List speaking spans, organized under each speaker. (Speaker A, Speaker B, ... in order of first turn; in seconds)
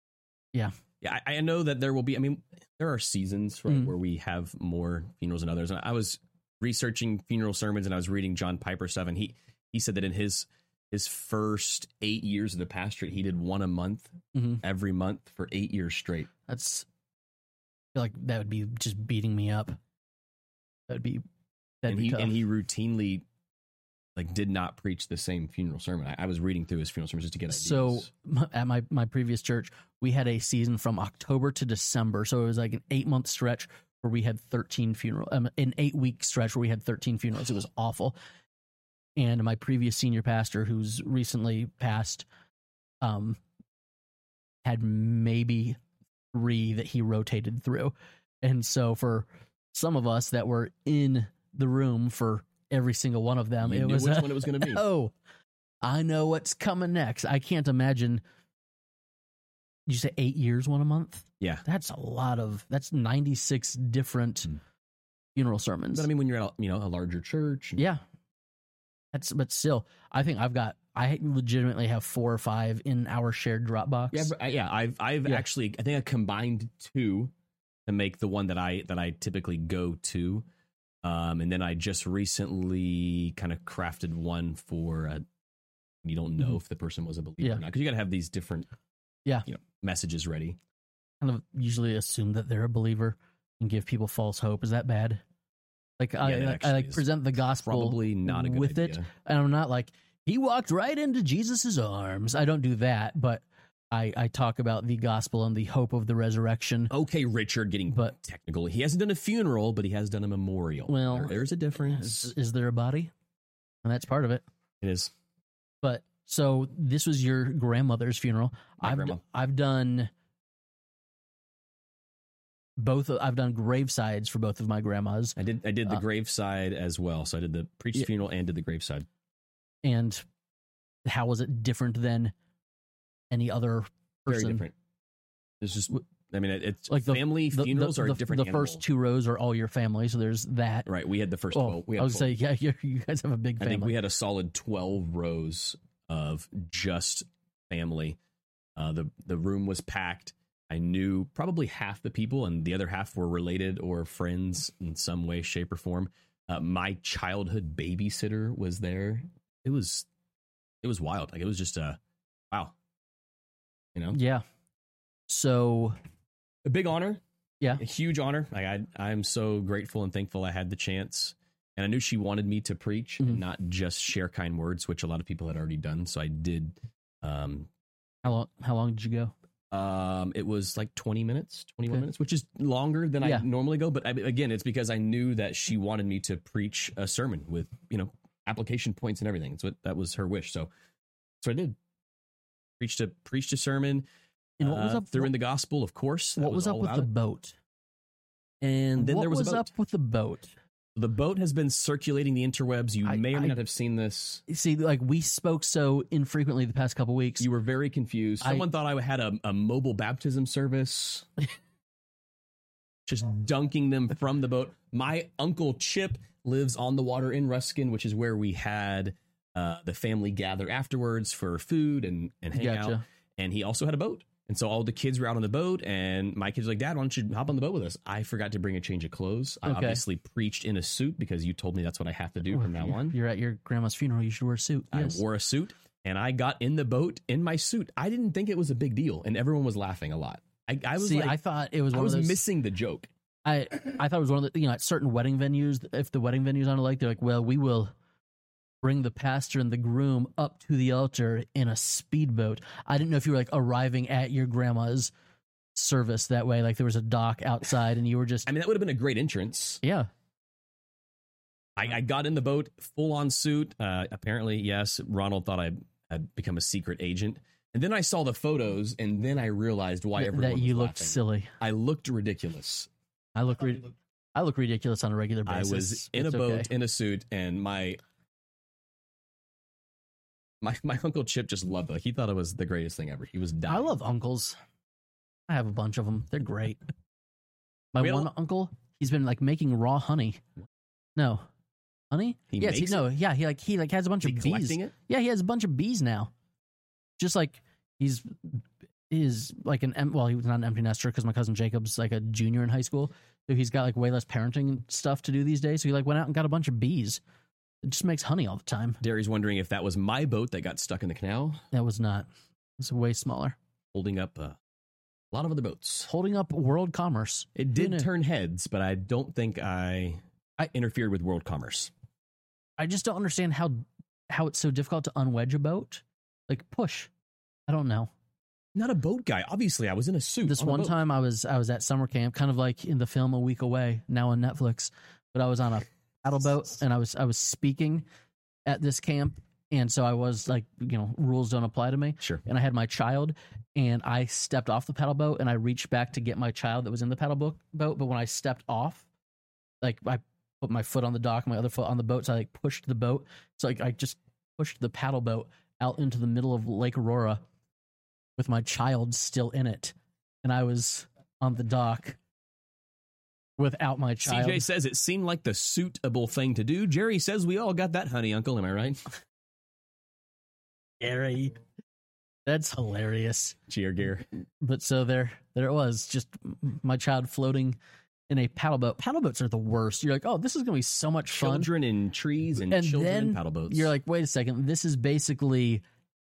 Speaker A: 1.0-16.3, 21.9-23.2, 24.1-28.1, 53.6-54.8, 65.9-67.8, 74.1-77.3, 77.8-80.4, 81.0-85.2, 86.0-88.7, 89.5-90.6, 96.2-97.0, 97.6-99.1, 106.9-112.3, 114.8-115.1, 118.8-119.2, 125.4-129.1, 134.3-134.7, 135.6-138.8, 140.9-142.3, 143.6-148.2, 148.8-160.1, 160.8-162.0, 166.6-167.2, 167.8-177.7, 179.7-190.7, 191.4-191.8, 192.8-194.1, 194.6-197.1, 198.6-199.7, 200.9-204.4, 207.4-211.3, 213.1-233.2, 234.9-241.4, 241.9-243.1, 258.5-259.8, 261.8-272.9, 275.5-278.0, 280.6-283.9, 288.0-288.3, 292.5-293.0, 294.2-294.9, 309.0-311.6, 313.9-314.6, 315.3-316.1, 317.6-321.9, 328.7-330.9, 364.2-369.0, 373.7-374.2, 381.4-383.9
Speaker B: 14.3-14.6, 16.5-16.9, 17.9-19.8, 20.9-21.2, 21.8-22.3, 27.5-38.1, 39.2-42.2, 43.0-43.4, 44.6-45.8, 46.3-55.1, 55.8-58.2, 59.9-64.5, 65.3-66.1, 69.1-74.3, 91.2-95.2, 96.0-106.9, 110.9-113.1, 113.8-114.4, 115.8-120.1, 122.8-125.3, 129.8-130.2, 131.0-132.3, 133.3-134.6, 136.9-140.9, 141.5-143.9, 164.1-164.4, 165.3-165.9, 178.2-179.3, 194.6-195.3, 196.4-197.5, 198.9-200.5, 203.0-203.5, 204.5-207.4, 208.4-208.7, 222.6-223.0, 229.7-230.0, 232.5-235.2, 241.0-242.4, 243.4-247.9, 248.8-255.1, 255.7-258.5, 259.8-260.1, 270.2-271.5, 273.3-276.7, 283.7-284.6, 285.5-286.8, 287.9-290.4, 291.1-291.4, 292.1-296.3, 297.2-307.2, 307.8-309.0, 311.7-312.3, 312.8-313.6, 316.1-318.1, 322.8-327.1, 327.7-328.1, 330.4-338.1, 338.6-349.1, 349.8-357.4, 358.4-362.2, 363.6-364.6, 371.0-371.6, 372.4-373.6, 374.6-377.8, 378.3-381.7, 382.7-385.8